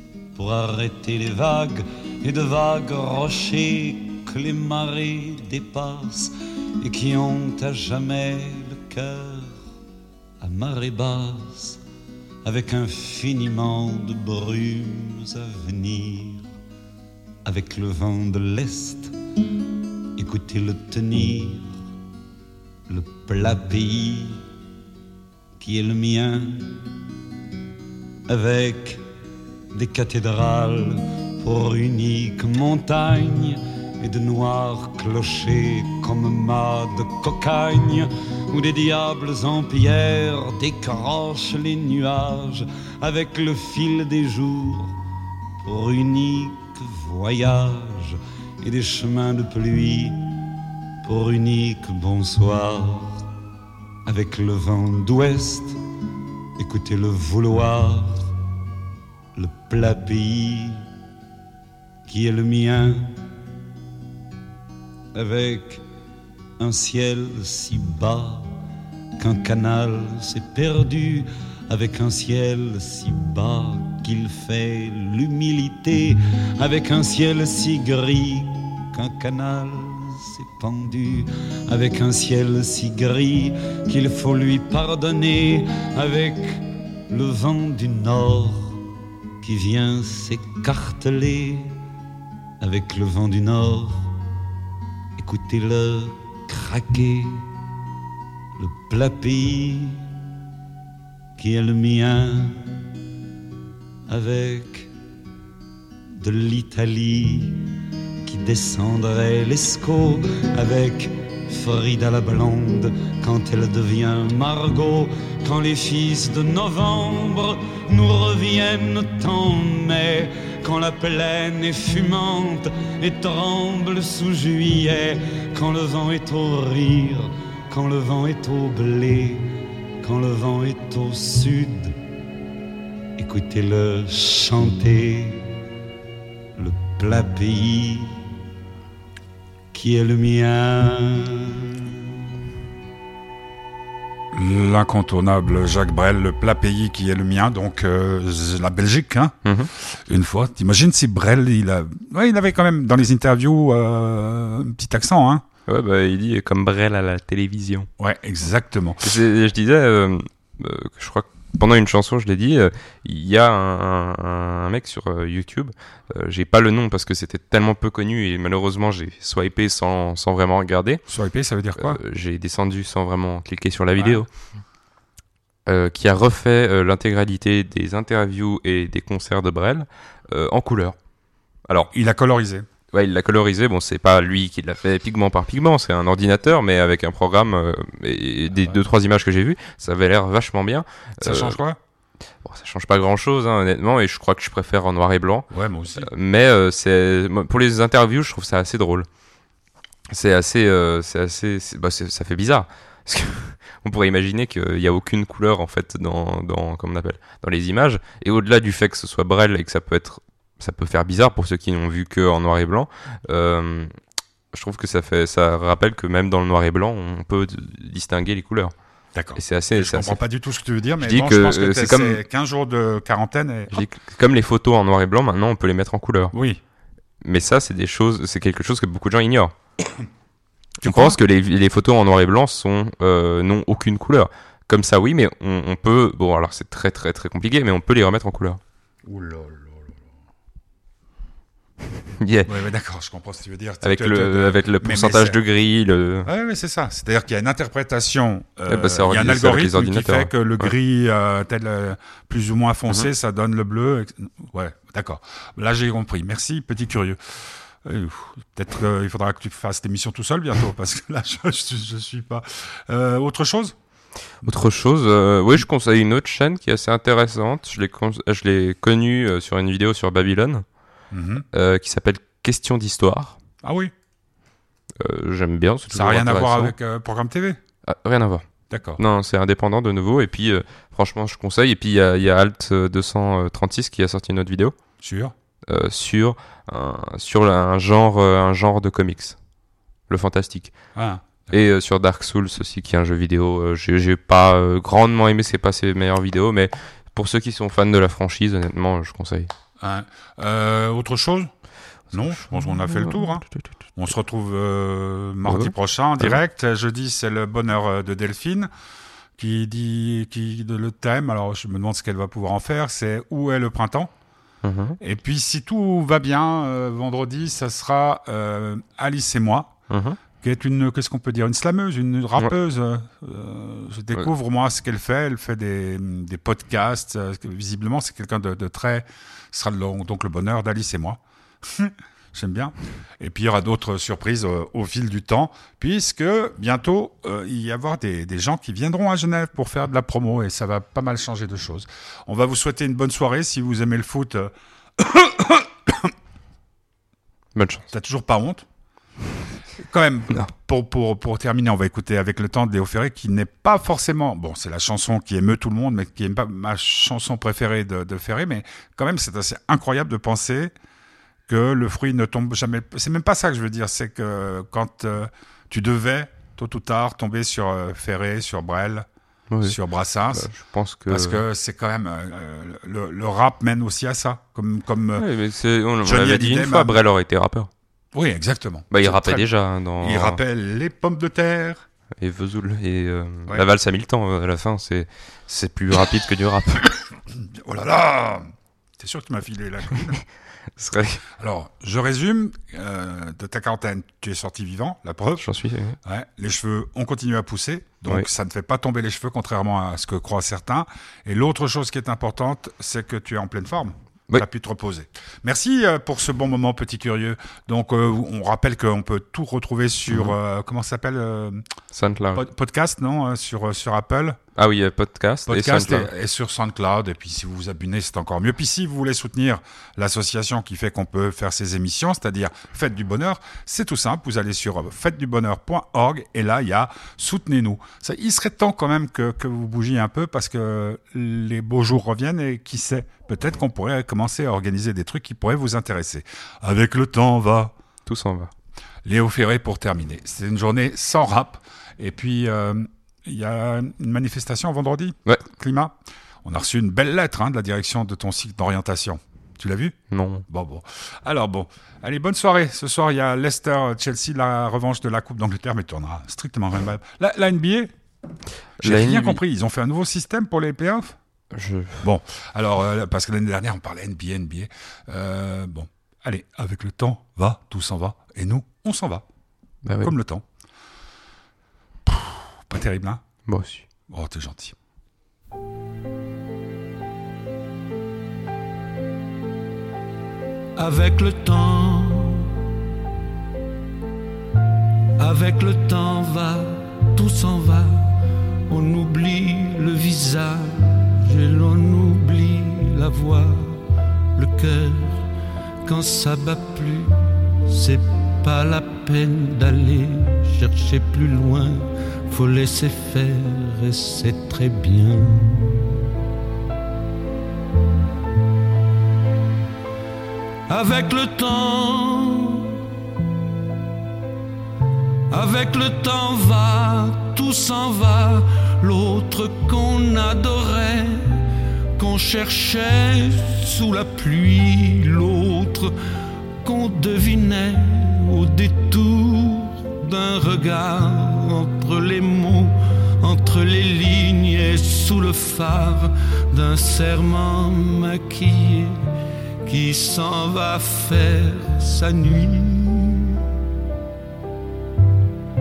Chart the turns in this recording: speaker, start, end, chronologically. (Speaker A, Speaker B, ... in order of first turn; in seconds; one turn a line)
Speaker A: 0.3-9.5
Speaker A: 10.4-11.8
Speaker A: 12.4-16.5
Speaker A: 17.4-19.1
Speaker A: 20.2-21.7
Speaker A: 22.9-24.4
Speaker A: 25.6-26.9
Speaker A: 28.3-29.0
Speaker A: 29.7-45.0
Speaker A: 45.6-50.2
Speaker A: 51.0-53.2
Speaker A: 54.0-55.8
Speaker A: 56.6-58.3
Speaker A: 59.3-60.8
Speaker A: 62.0-63.1
Speaker A: 65.1-65.8
Speaker A: 66.6-68.5
Speaker A: 69.2-88.8
Speaker A: 89.4-91.7
Speaker A: 92.6-94.1
Speaker A: 95.2-97.5
Speaker A: 98.6-100.0
Speaker A: 101.4-102.8
Speaker A: 104.1-104.9
Speaker A: 106.2-107.7
Speaker A: 108.2-129.5
Speaker A: 130.0-131.9
Speaker A: 133.2-135.5
Speaker A: 136.6-138.2
Speaker A: 139.7-142.0
Speaker B: 144.3-155.4
Speaker C: 149.4-149.7
Speaker C: 155.7-157.9
Speaker B: 158.0-159.1
Speaker C: 159.0-171.0
Speaker B: 171.1-172.0
Speaker C: 171.8-174.3
Speaker B: 174.0-174.2
Speaker C: 175.7-180.9
Speaker B: 181.9-182.7
Speaker C: 182.9-191.6
Speaker B: 191.2-191.8
Speaker C: 192.4-199.1
Speaker B: 195.5-196.1
Speaker C: 200.1-213.9
Speaker C: 214.5-218.7
Speaker B: 219.1-223.8
Speaker C: 219.3-220.2
Speaker C: 221.0-222.2
Speaker C: 223.7-226.3
Speaker B: 226.3-226.6
Speaker C: 227.2-229.5
Speaker C: 230.8-238.6
Speaker B: 230.8-231.2
Speaker B: 239.0-240.0
Speaker C: 242.2-242.5
Speaker B: 242.5-245.4
Speaker C: 243.8-246.3
Speaker B: 246.2-263.7
Speaker C: 248.7-250.7
Speaker C: 264.4-270.6
Speaker B: 271.1-271.4
Speaker C: 271.5-273.4
Speaker B: 273.6-273.9
Speaker C: 275.0-276.7
Speaker B: 275.9-277.6
Speaker C: 277.9-278.4
Speaker B: 278.7-279.0
Speaker C: 279.0-284.8
Speaker B: 285.0-285.3
Speaker C: 285.7-289.4
Speaker C: 290.1-290.7
Speaker B: 290.9-291.5
Speaker C: 291.5-299.5
Speaker B: 299.8-301.5
Speaker B: 302.1-303.4
Speaker C: 302.4-303.7
Speaker B: 303.9-308.7
Speaker C: 305.4-306.4
Speaker B: 309.4-314.1
Speaker C: 314.6-315.0
Speaker B: 315.0-319.8
Speaker C: 319.9-320.2
Speaker B: 320.4-346.1
Speaker C: 347.5-347.9
Speaker B: 347.9-348.6
Speaker B: 349.9-360.7
Speaker B: 361.5-369.1
Speaker C: 369.5-369.8
Speaker B: 369.6-370.5
Speaker C: 370.3-371.4
Speaker B: 371.1-375.3
Speaker C: 375.2-377.7
Speaker B: 376.0-377.0
Speaker B: 378.1-379.5
Speaker C: 378.9-380.4
Speaker B: 380.0-381.9
Speaker C: 382.2-386.9
Speaker B: 387.3-388.4
Speaker B: 389.0-390.2
Speaker C: 390.8-391.2
Speaker B: 391.4-395.4
Speaker C: 395.4-396.0
Speaker B: 396.0-411.6
Speaker C: 411.9-412.4
Speaker B: 412.3-414.4
Speaker C: 414.6-416.1
Speaker B: 415.5-437.7
Speaker C: 438.1-438.5
Speaker B: 439.0-449.9
Speaker C: 450.1-450.4
Speaker B: 450.5-457.9
Speaker C: 458.8-459.4
Speaker B: 458.8-461.1
Speaker C: 461.5-462.0
Speaker B: 462.0-469.2
Speaker C: 469.8-470.1
Speaker B: 470.0-470.4
Speaker B: 472.1-473.2
Speaker C: 473.4-473.8
Speaker B: 474.1-474.7
Speaker A: 480.8-482.6
Speaker A: 485.2-495.2
Speaker A: 495.8-506.1
Speaker A: 510.7-512.9
Speaker A: 515.3-525.9
Speaker A: 526.6-543.5